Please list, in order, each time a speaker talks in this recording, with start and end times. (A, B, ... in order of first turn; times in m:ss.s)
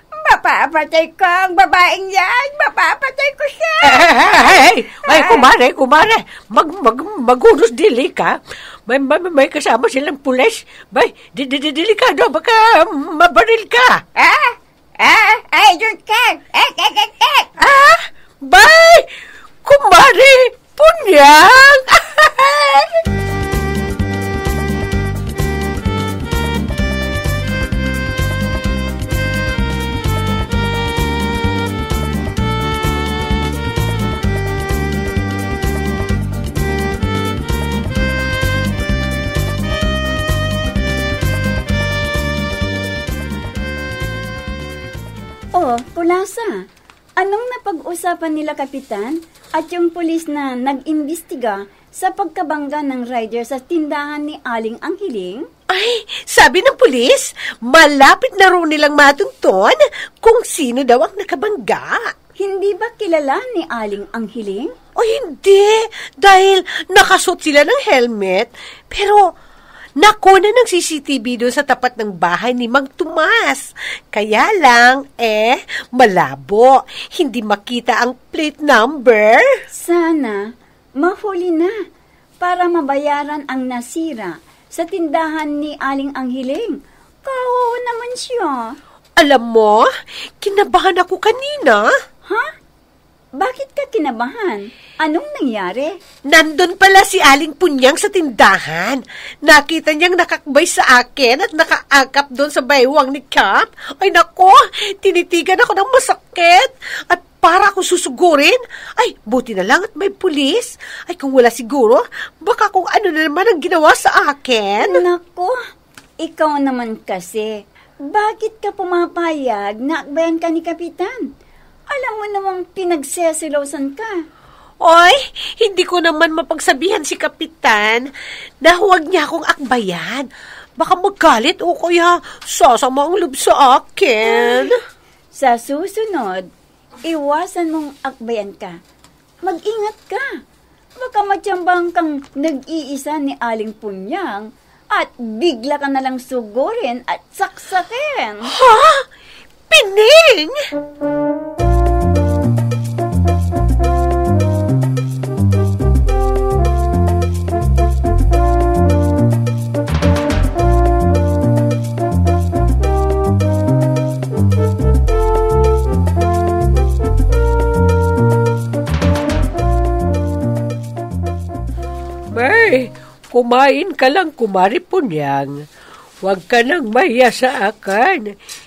0:00.1-0:05.5 A
0:03.8-0:14.0 B
0:14.2-0:17.5 A
0:17.6-0:19.1 B
0:19.6-0:23.0 B
0:45.5-0:46.6 C
0:47.2-0:55.4 C
0:55.7-1:02.1 B
1:02.4-1:04.7 C
1:05.0-1:09.3 B
1:10.0-1:19.6 B
1:19.8-1:20.4 C
1:21.0-1:21.7 C
1:22.4-1:28.7 C
1:29.2-1:29.9 B
1:30.4-1:31.9 B
1:32.2-1:32.5 C
1:33.4-1:36.0 C
1:36.3-1:55.0 B
1:54.8-1:55.6 C
1:56.2-1:57.5 C
1:58.0-2:01.2 C
2:01.9-2:04.1 C
2:04.8-2:08.1 B
2:08.6-2:14.8 B
2:14.3-2:14.7 C
2:15.3-2:16.5 C
2:17.0-2:18.8 C
2:19.4-2:20.3 C
2:21.0-2:28.5 C
2:28.5-2:29.0 B
2:29.7-2:30.6 B
2:52.3-2:55.6 B
2:56.2-2:58.4 B